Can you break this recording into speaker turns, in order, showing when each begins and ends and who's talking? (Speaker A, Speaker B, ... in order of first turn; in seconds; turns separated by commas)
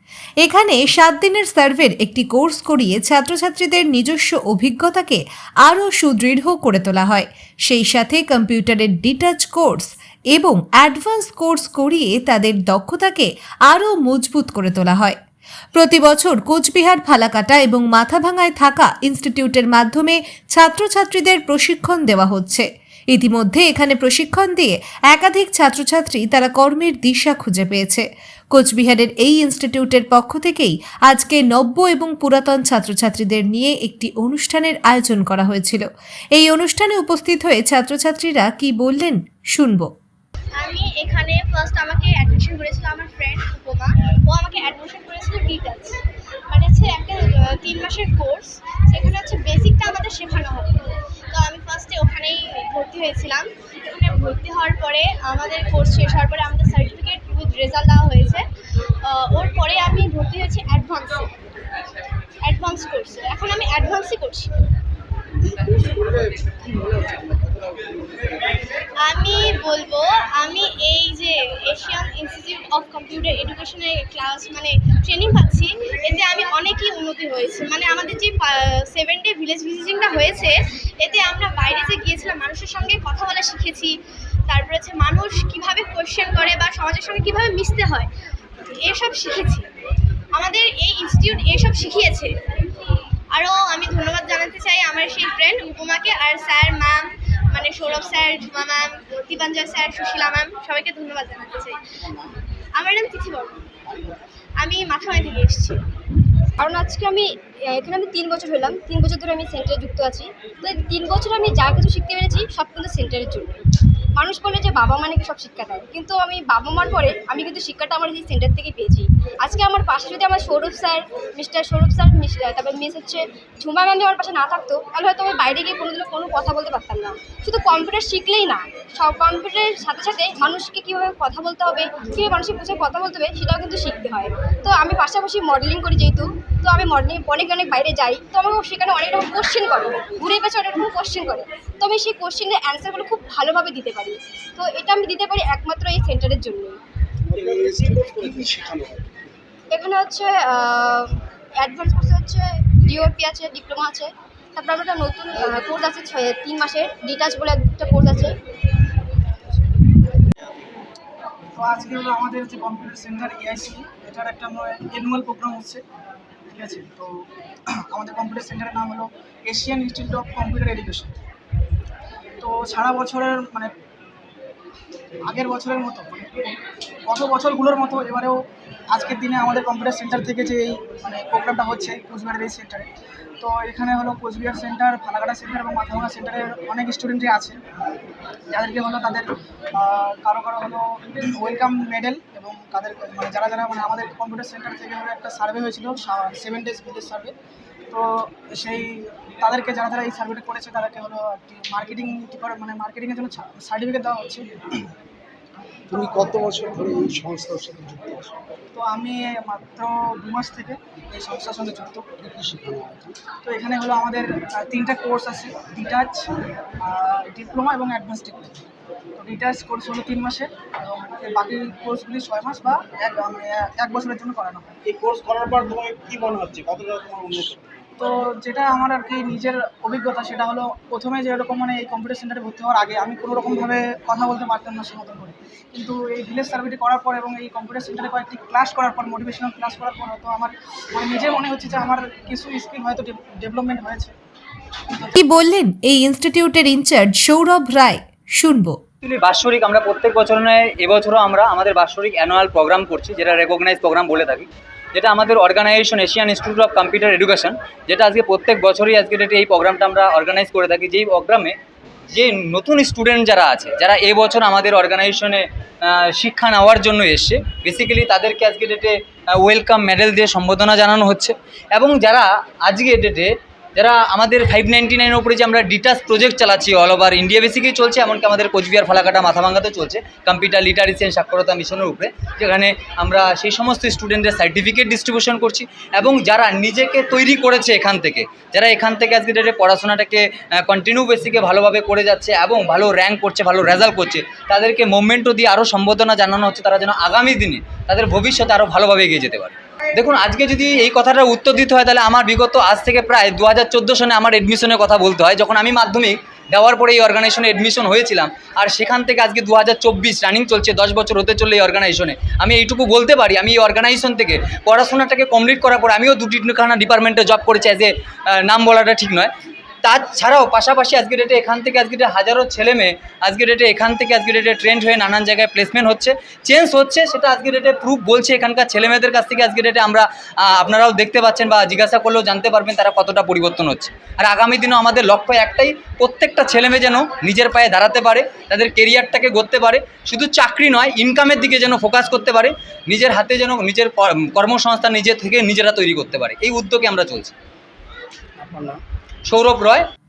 Speaker A: 0.4-15.2, Speaker A: 15.7-39.9, Speaker B: 40.6-46.0, Speaker B: 46.5-58.4, Speaker B: 59.0-61.3, Speaker B: 62.4-64.5, Speaker B: 69.0-84.0, Speaker B: 84.5-88.1, Speaker B: 88.8-89.7, Speaker B: 90.3-92.4, Speaker B: 93.3-101.8, Speaker B: 102.8-103.8, Speaker B: 104.6-105.8, Speaker C: 106.6-113.6, Speaker C: 114.2-146.8, Speaker D: 147.3-149.0, Speaker C: 149.7-158.3, Speaker E: 161.6-165.8, Speaker E: 166.5-171.2, Speaker E: 172.4-173.7, Speaker E: 175.2-176.6, Speaker E: 177.1-187.6, Speaker E: 188.5-197.3, Speaker E: 197.9-204.5, Speaker D: 205.9-208.3, Speaker E: 208.7-212.1, Speaker D: 212.2-213.1, Speaker E: 213.4-216.3, Speaker E: 216.8-218.5, Speaker E: 219.2-224.8, Speaker D: 224.8-227.6, Speaker E: 228.0-244.1, Speaker A: 245.2-248.8, Speaker F: 249.0-261.6, Speaker F: 262.1-319.3, Speaker F: 319.8-347.3, Speaker D: 348.4-348.8, Speaker F: 349.2-349.9